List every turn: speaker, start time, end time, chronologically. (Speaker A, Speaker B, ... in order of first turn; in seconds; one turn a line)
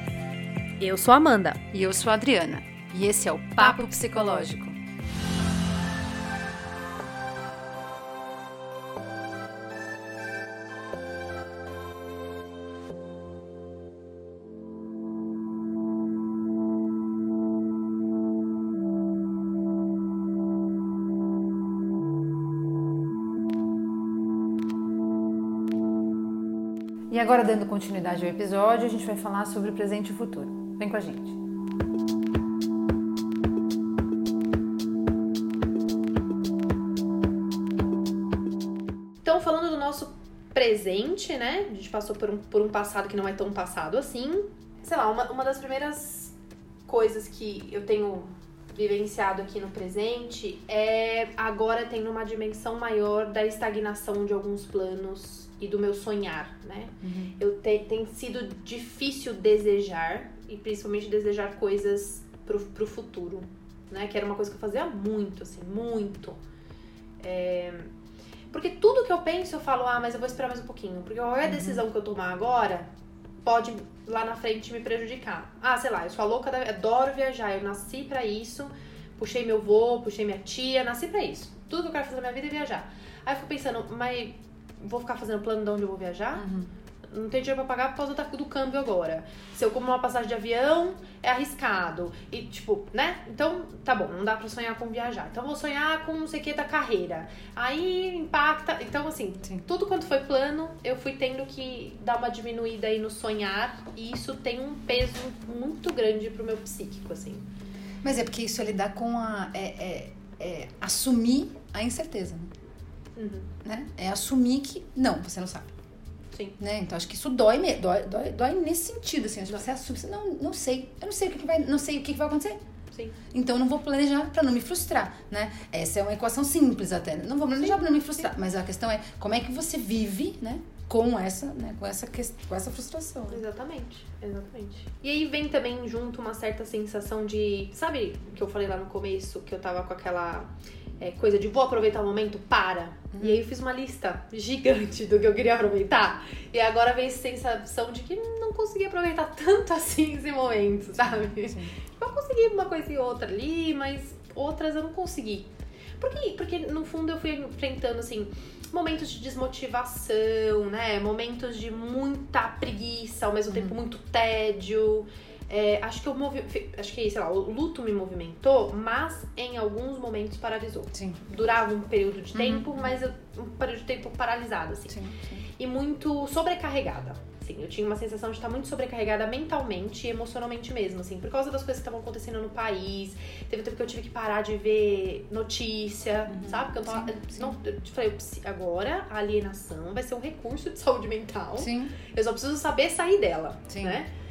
Speaker A: 0.8-1.6
Speaker B: 1.7-4.8
Speaker A: 3.6-4.4
Speaker B: 27.1-31.4
Speaker A: 39.2-46.3
Speaker A: 46.9-66.4
Speaker B: 57.0-57.3
Speaker A: 67.2-67.9
Speaker A: 68.5-72.9
Speaker B: 71.5-71.8
Speaker A: 73.4-86.5
Speaker B: 86.4-86.7
Speaker A: 87.1-107.5
Speaker B: 108.0-112.5
Speaker A: 113.2-113.5
Speaker B: 113.6-115.7
Speaker A: 116.3-116.6
Speaker B: 116.6-122.6
Speaker A: 122.9-123.2
Speaker B: 123.3-133.4
Speaker A: 133.3-155.5
Speaker B: 143.1-143.4
Speaker B: 151.3-151.7
Speaker A: 156.0-174.9
Speaker B: 170.9-171.2
Speaker B: 172.3-172.7
Speaker B: 174.9-175.4
Speaker A: 175.6-194.1
Speaker B: 186.3-187.6
Speaker B: 191.6-191.9
Speaker B: 193.7-194.0